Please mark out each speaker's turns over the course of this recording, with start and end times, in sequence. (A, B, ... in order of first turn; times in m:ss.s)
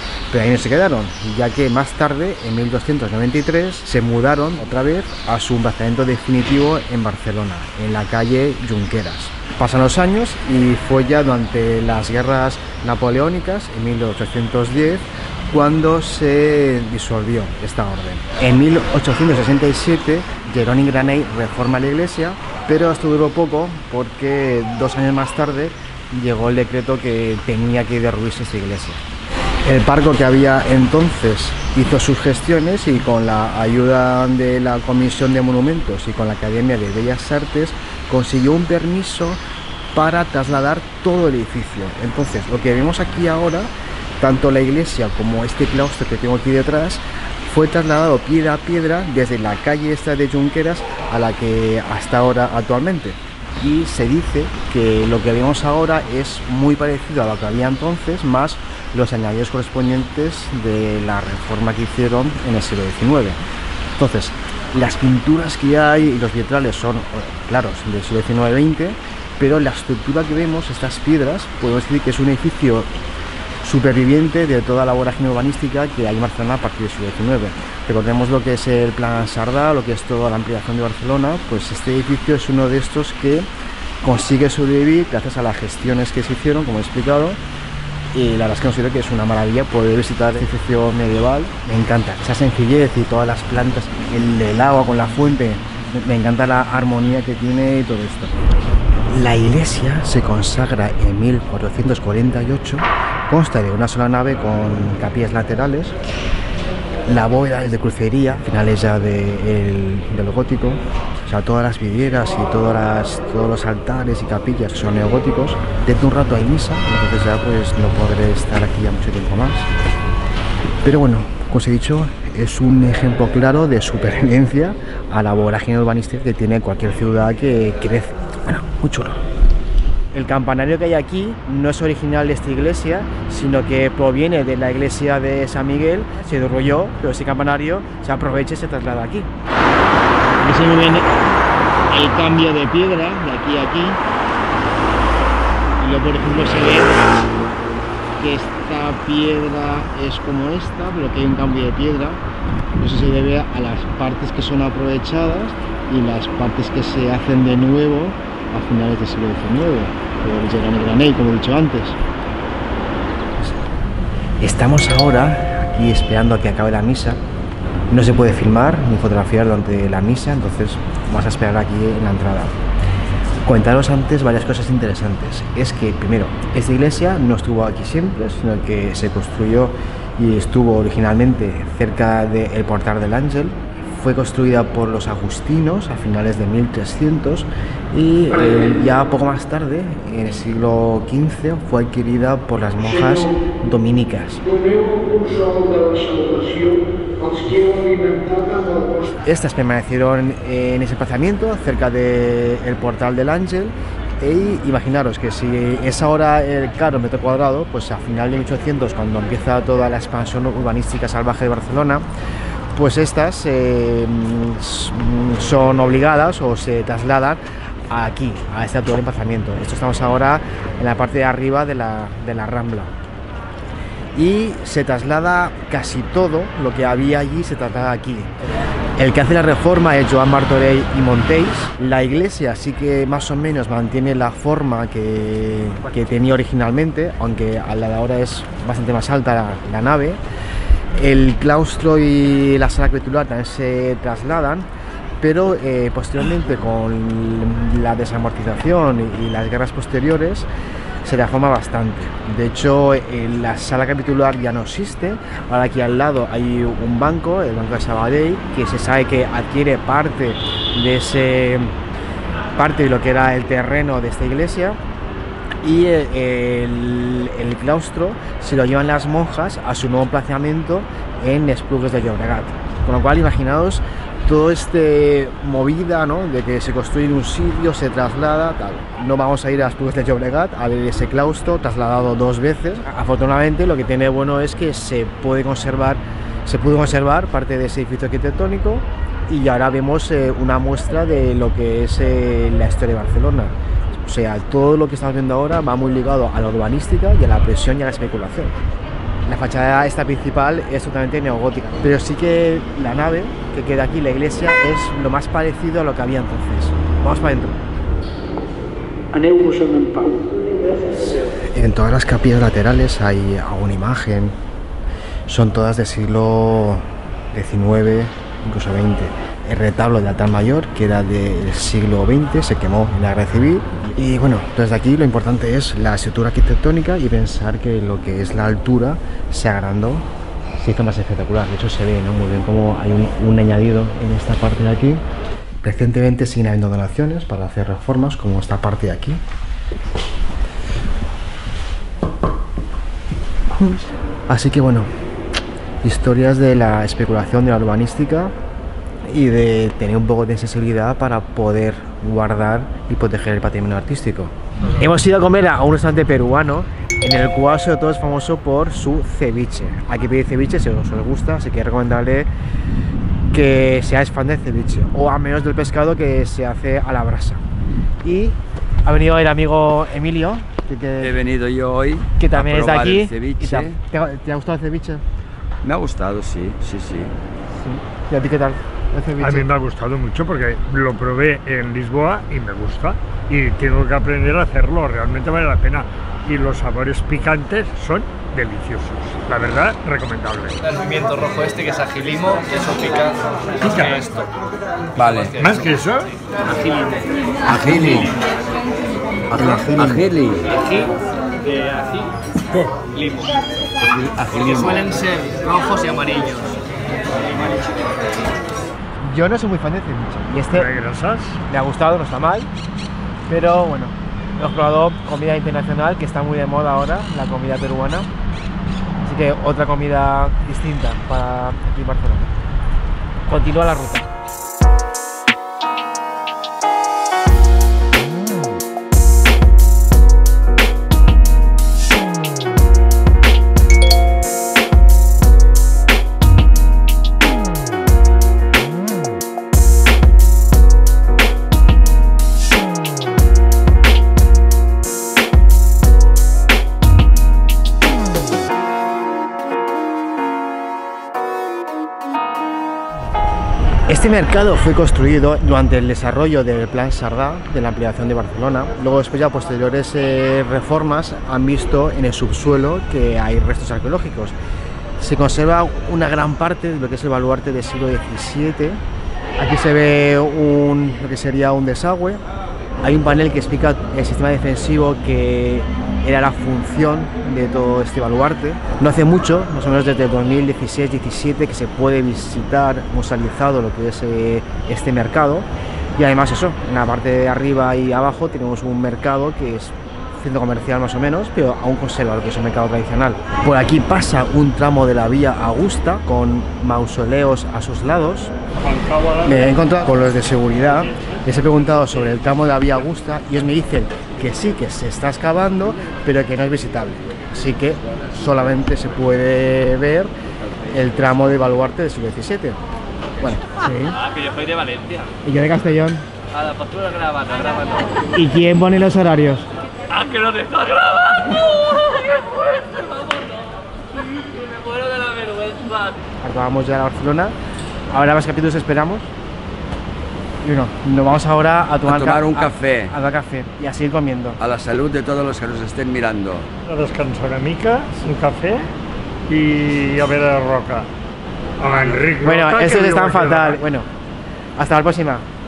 0:00.3-0:29.0 A
0:29.6-0:39.4 A
0:39.9-1:03.4 A
1:04.0-1:12.9 A
1:13.6-1:23.5 A
1:24.0-1:27.4 A
1:28.1-1:38.4 A
1:39.1-1:46.0 A
1:47.0-1:59.7 A
2:00.8-2:09.2 A
2:10.1-2:19.3 A
2:20.4-2:21.2 A
2:21.9-2:24.0 A
2:25.8-2:27.2 A
2:28.2-2:32.2 A
2:32.8-2:42.0 A
2:43.4-2:43.6 A
2:44.4-2:47.2 A
2:47.9-2:52.6 A
2:53.4-3:14.9 A
3:14.7-3:19.0 B
3:19.0-3:32.0 A
3:32.7-3:42.9 A
3:44.1-3:48.3 A
3:49.0-4:00.2 A
4:00.9-4:04.7 A
4:05.2-4:10.5 A
4:11.0-4:21.7 A
4:22.5-4:24.8 A
4:25.6-4:58.5 A
4:59.2-5:07.6 A
5:09.1-5:10.8 B
5:10.9-5:14.4 A
5:15.3-5:30.1 A
5:30.6-5:35.0 A
5:35.6-5:39.2 A
5:43.5-5:44.9 A
5:45.8-5:48.3 A
5:49.0-6:02.3 A
6:03.3-6:07.4 A
6:08.0-6:11.2 A
6:11.0-6:13.8 C
6:12.2-6:15.0 A
6:15.6-6:17.1 C
6:17.6-6:19.5 A
6:19.2-6:30.8 D
6:30.8-6:33.2 B
6:33.6-6:34.2 D
6:35.0-6:35.3 C
6:35.4-6:36.1 D
6:37.4-6:38.2 C
6:39.3-6:40.6 C
6:39.6-6:40.0 A
6:41.6-6:42.0 B
6:42.9-6:43.3 B
6:43.8-6:45.0 C
6:45.0-6:46.5 B
6:49.0-6:50.7 A
6:50.5-6:51.4 D
6:51.5-6:52.5 A
6:53.3-6:58.1 A
6:59.0-7:02.3 A
7:03.2-7:04.1 A
7:33.9-7:44.3 A
7:45.0-7:48.8 A
7:49.4-7:52.2 A
7:52.8-8:18.3 A
8:18.6-8:19.5 D
8:19.2-8:30.1 A
8:30.7-8:32.6 A
8:33.2-8:34.0 A
8:34.1-8:35.0 B
8:35.2-8:36.0 A
8:36.4-8:37.9 B
8:38.1-8:39.5 A
8:39.9-8:41.2 B
8:42.0-8:43.5 B
8:44.2-8:45.9 B
8:46.2-8:47.3 A
8:47.9-8:49.1 A
8:50.4-8:54.4 A
8:51.8-8:52.9 C
8:54.4-8:56.5 C
8:56.6-8:58.7 D
8:59.3-9:00.9 D
9:01.6-9:03.6 D
9:02.2-9:03.9 A
9:04.6-9:05.3 A